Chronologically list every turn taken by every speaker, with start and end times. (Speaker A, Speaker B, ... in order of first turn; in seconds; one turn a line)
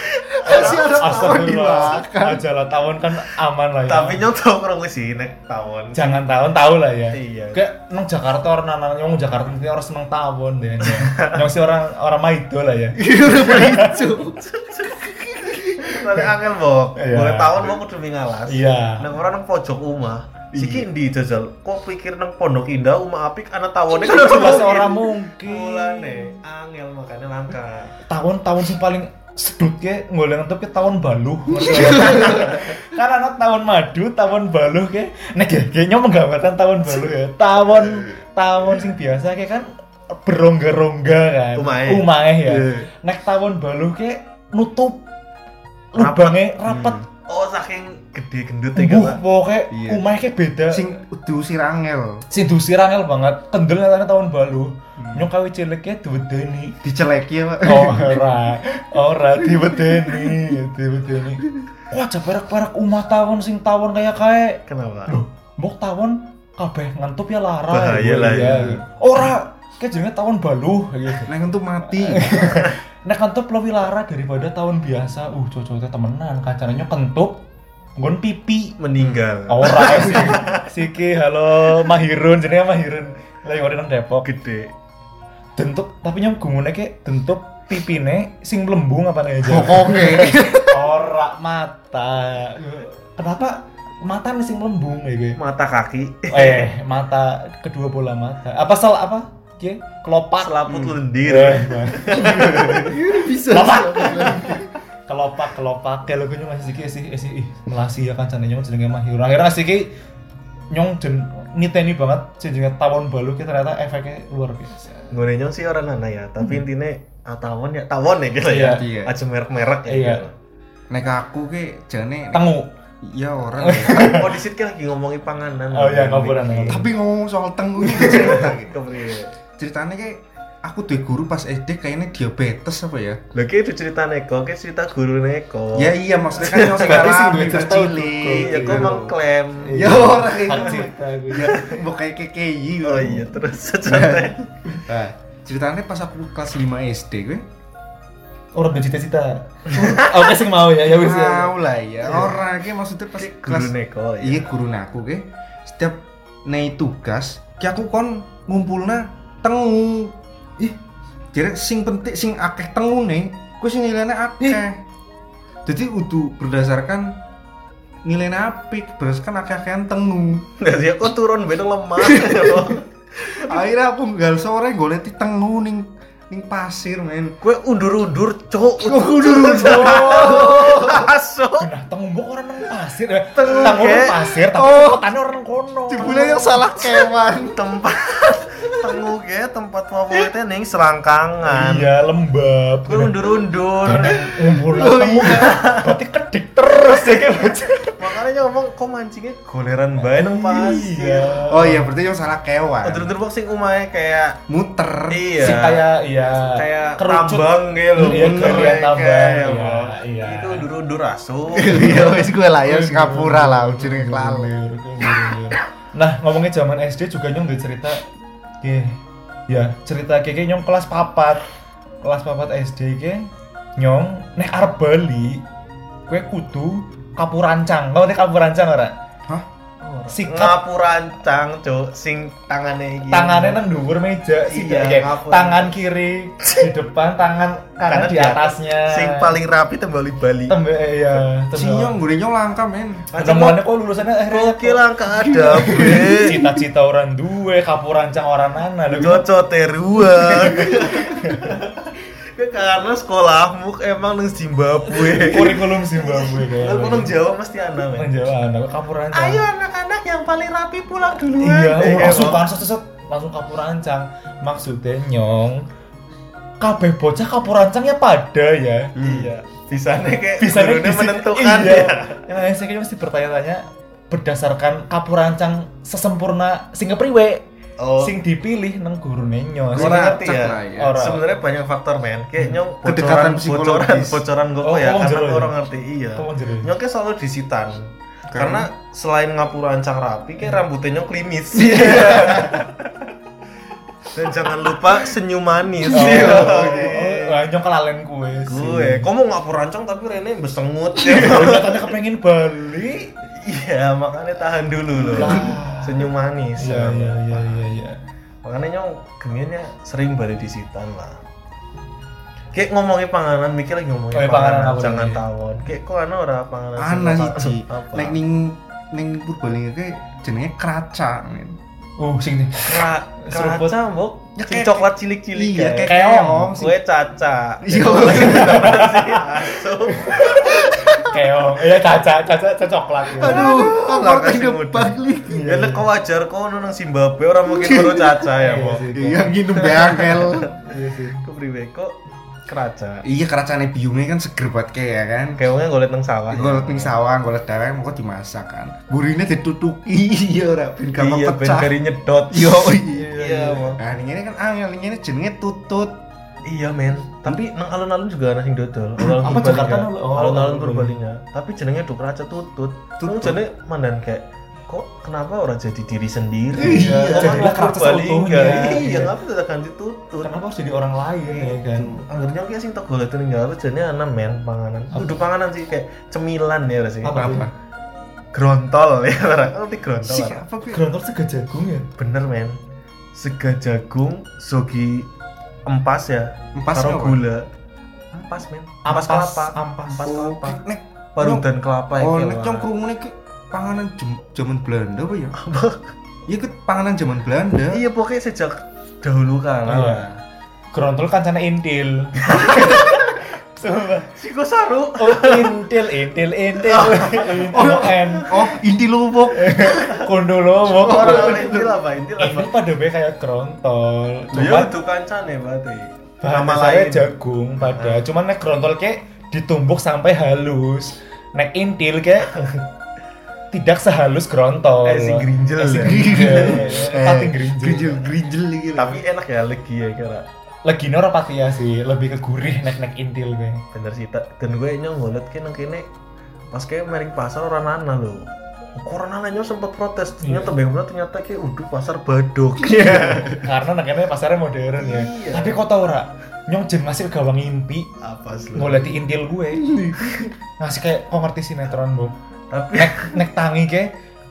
Speaker A: 0.3-2.4
Speaker B: 0.4-4.2
Speaker C: 0.5-1.1
Speaker C: 3.9-6.2
Speaker B: 5.9-14.1
Speaker C: 7.1-7.6
Speaker C: 10.8-11.4
Speaker A: 12.9-15.8
Speaker C: 13.6-27.9
Speaker B: 15.8-16.3
Speaker B: 16.9-17.6
Speaker B: 18.5-19.1
Speaker A: 20.5-20.9
Speaker A: 24.0-24.7
Speaker B: 24.1-26.4
Speaker B: 28.1-45.0
Speaker C: 31.8-32.5
Speaker A: 31.9-32.4
Speaker C: 41.5-42.1
Speaker A: 42.5-42.9
Speaker B: 45.9-47.0
Speaker C: 46.0-46.4
Speaker A: 46.7-47.0
Speaker C: 47.3-49.2
Speaker B: 48.7-50.9
Speaker A: 49.7-50.0
Speaker A: 50.7-52.2
Speaker B: 52.3-56.8
Speaker A: 55.0-55.3
Speaker A: 56.8-58.3
Speaker B: 57.6-71.3
Speaker C: 64.7-65.1
Speaker C: 67.7-68.8
Speaker A: 71.2-72.4
Speaker B: 71.9-77.4
Speaker B: 78.0-78.8
Speaker C: 78.8-80.6
Speaker B: 79.5-84.3
Speaker A: 79.9-80.3
Speaker C: 84.2-84.7
Speaker B: 85.5-95.4
Speaker A: 89.4-90.8
Speaker C: 95.4-96.6
Speaker B: 96.3-104.6
Speaker C: 100.4-102.7
Speaker A: 102.1-104.7
Speaker B: 105.1-110.0
Speaker B: 110.7-115.1
Speaker C: 115.1-120.3
Speaker B: 118.5-118.8
Speaker A: 118.6-119.2
Speaker B: 119.9-120.2
Speaker A: 120.9-122.5
Speaker B: 122.3-122.7
Speaker A: 123.0-124.3
Speaker B: 123.6-124.3
Speaker C: 124.0-126.8
Speaker B: 125.7-126.9
Speaker A: 126.7-128.8
Speaker C: 128.0-129.3
Speaker A: 129.6-133.2
Speaker C: 133.3-137.3
Speaker A: 135.7-139.1
Speaker B: 136.7-138.9
Speaker C: 138.3-140.7
Speaker B: 139.6-141.5
Speaker A: 139.7-147.4
Speaker C: 141.5-141.8
Speaker C: 142.8-144.4
Speaker B: 148.5-151.5
Speaker C: 149.8-150.1
Speaker A: 150.9-160.8
Speaker C: 153.2-154.5
Speaker A: 161.3-164.8
Speaker A: 165.6-167.2
Speaker A: 168.0-170.5
Speaker C: 170.6-173.6
Speaker A: 172.0-177.3
Speaker C: 177.4-181.7
Speaker A: 178.8-181.1
Speaker B: 179.6-180.5
Speaker B: 181.6-186.6
Speaker C: 183.3-184.2
Speaker A: 183.5-183.8
Speaker A: 184.5-185.0
Speaker A: 185.9-187.7
Speaker C: 186.8-191.9
Speaker B: 191.4-193.2
Speaker C: 192.9-194.3
Speaker B: 193.8-198.1
Speaker A: 194.6-195.6
Speaker C: 195.2-195.9
Speaker C: 198.0-201.3
Speaker B: 200.0-201.9
Speaker A: 201.5-203.1
Speaker C: 202.8-204.4
Speaker A: 204.5-205.3
Speaker C: 205.1-205.8
Speaker B: 205.4-210.7
Speaker C: 206.4-212.3
Speaker A: 207.9-208.8
Speaker A: 211.5-214.5
Speaker B: 211.8-218.0
Speaker B: 218.6-221.4
Speaker B: 222.0-225.4
Speaker B: 226.1-228.9
Speaker C: 229.8-233.6
Speaker B: 230.1-230.6
Speaker B: 233.1-239.3
Speaker C: 234.4-235.8
Speaker C: 236.4-236.7
Speaker C: 237.9-240.6
Speaker B: 240.5-242.0
Speaker A: 241.5-243.1
Speaker C: 243.1-243.6
Speaker B: 243.2-244.8
Speaker C: 244.3-246.4
Speaker A: 245.3-246.5
Speaker B: 245.6-249.2
Speaker C: 248.9-251.8
Speaker B: 250.5-251.6
Speaker C: 252.3-258.2
Speaker B: 254.9-257.1
Speaker B: 257.9-259.4
Speaker C: 259.1-262.5
Speaker B: 261.4-265.6
Speaker B: 266.6-268.9
Speaker A: 269.0-269.3
Speaker C: 269.0-272.2
Speaker B: 270.4-277.4
Speaker C: 277.8-278.1
Speaker B: 278.0-281.2
Speaker A: 279.7-281.0
Speaker C: 279.7-292.9
Speaker A: 282.8-284.2
Speaker B: 284.6-285.5
Speaker B: 286.1-286.7
Speaker A: 288.3-288.7
Speaker A: 291.5-292.6
Speaker C: 294.1-297.4
Speaker A: 295.8-296.9
Speaker B: 295.9-299.1
Speaker C: 298.5-301.9
Speaker B: 301.0-303.1
Speaker C: 303.4-307.6
Speaker B: 305.1-306.1
Speaker A: 305.3-305.5
Speaker B: 306.6-308.0
Speaker C: 308.4-311.2
Speaker C: 312.5-318.2
Speaker B: 314.1-315.2
Speaker A: 316.8-321.6
Speaker B: 322.0-323.7
Speaker C: 322.6-331.1
Speaker A: 324.4-326.8
Speaker B: 325.9-326.5
Speaker A: 327.6-328.8
Speaker B: 327.9-329.3
Speaker B: 329.9-333.5
Speaker A: 330.4-330.9
Speaker A: 333.2-335.8
Speaker C: 333.2-338.9
Speaker B: 335.4-335.7
Speaker A: 337.5-338.3
Speaker B: 338.4-339.3
Speaker A: 338.9-340.5
Speaker C: 339.5-340.5
Speaker B: 340.6-341.2
Speaker C: 341.2-341.9
Speaker C: 342.5-343.0
Speaker A: 343.0-345.4
Speaker C: 345.4-346.9
Speaker A: 346.3-351.7
Speaker C: 350.9-353.8
Speaker A: 352.3-353.1
Speaker B: 352.9-353.8
Speaker A: 353.8-356.0
Speaker C: 356.4-370.3
Speaker B: 359.2-360.9
Speaker A: 363.0-363.4
Speaker A: 366.5-367.5
Speaker B: 366.6-369.1
Speaker B: 370.2-372.0
Speaker C: 371.2-377.3
Speaker B: 374.9-375.2
Speaker B: 377.0-377.5
Speaker A: 377.1-377.5
Speaker C: 378.3-380.4
Speaker A: 380.0-380.8
Speaker B: 380.7-381.9
Speaker C: 382.0-382.6
Speaker C: 383.1-385.1
Speaker C: 385.6-387.4
Speaker A: 386.5-387.2
Speaker C: 388.2-390.6
Speaker B: 388.8-390.1
Speaker A: 390.0-391.4
Speaker C: 391.1-392.7
Speaker A: 392.0-395.4
Speaker C: 395.4-395.9
Speaker A: 396.3-397.8
Speaker C: 397.7-400.2
Speaker B: 399.7-400.1
Speaker B: 400.7-404.1
Speaker C: 402.2-403.1
Speaker C: 404.1-405.6
Speaker B: 405.0-408.3
Speaker C: 406.6-408.5
Speaker A: 407.5-409.6
Speaker B: 409.3-411.5
Speaker C: 409.6-410.1
Speaker C: 410.7-412.5
Speaker A: 410.8-411.7
Speaker B: 412.2-414.7
Speaker C: 414.3-417.1
Speaker B: 416.2-422.3
Speaker C: 417.6-418.0
Speaker C: 422.3-422.6
Speaker B: 423.5-428.0
Speaker C: 424.8-426.8
Speaker A: 425.7-429.0
Speaker C: 428.7-430.2
Speaker B: 430.6-433.6
Speaker C: 433.7-435.9
Speaker C: 436.5-443.4
Speaker B: 440.2-440.5
Speaker A: 442.6-443.4
Speaker B: 443.4-447.9
Speaker C: 444.8-445.6
Speaker C: 448.0-448.9
Speaker B: 448.5-449.7
Speaker A: 449.6-450.3
Speaker B: 450.6-452.1
Speaker C: 452.5-453.2
Speaker B: 452.7-453.9